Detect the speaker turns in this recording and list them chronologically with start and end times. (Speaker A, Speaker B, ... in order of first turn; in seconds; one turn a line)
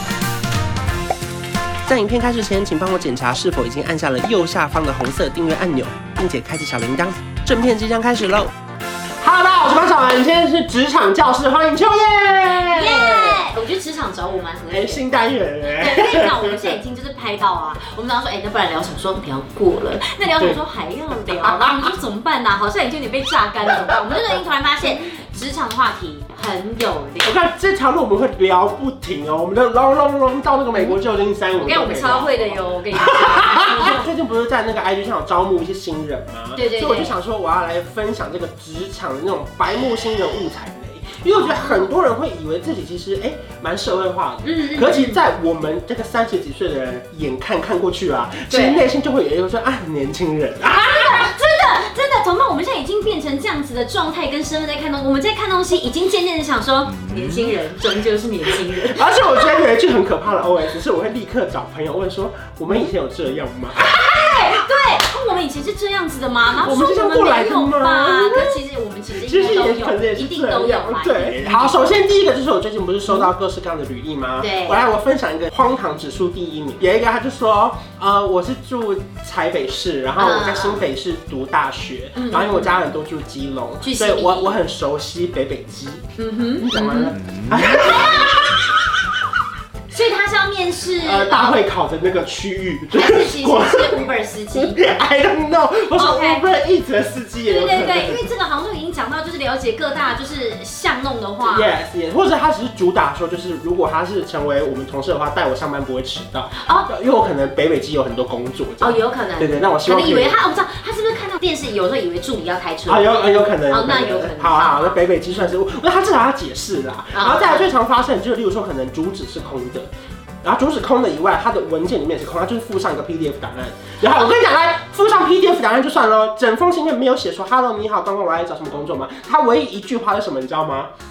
Speaker A: 1.9-8.5
Speaker A: 9.2-13.5
Speaker B: 12.7-15.0
Speaker A: 14.7-16.8
Speaker B: 15.7-27.3
Speaker A: 21.2-21.8
Speaker A: 27.2-51.3
Speaker B: 31.6-34.0
Speaker B: 36.5-37.1
Speaker B: 41.4-41.8
Speaker B: 44.4-45.2
Speaker B: 48.5-48.8
Speaker B: 50.6-59.6
Speaker A: 58.5-64.5
Speaker B: 63.8-71.8
Speaker A: 66.6-68.6
Speaker A: 69.2-86.0
Speaker B: 74.4-74.8
Speaker B: 80.2-80.8
Speaker B: 82.2-82.8
Speaker B: 83.8-84.6
Speaker B: 86.2-88.4
Speaker A: 86.6-89.2
Speaker B: 89.9-91.6
Speaker A: 91.0-98.2
Speaker B: 92.9-94.8
Speaker B: 95.9-96.4
Speaker B: 97.5-101.7
Speaker A: 101.4-110.4
Speaker B: 106.6-106.9
Speaker B: 108.8-113.2
Speaker A: 112.9-119.9
Speaker B: 113.7-115.5
Speaker B: 117.1-117.7
Speaker A: 120.4-130.9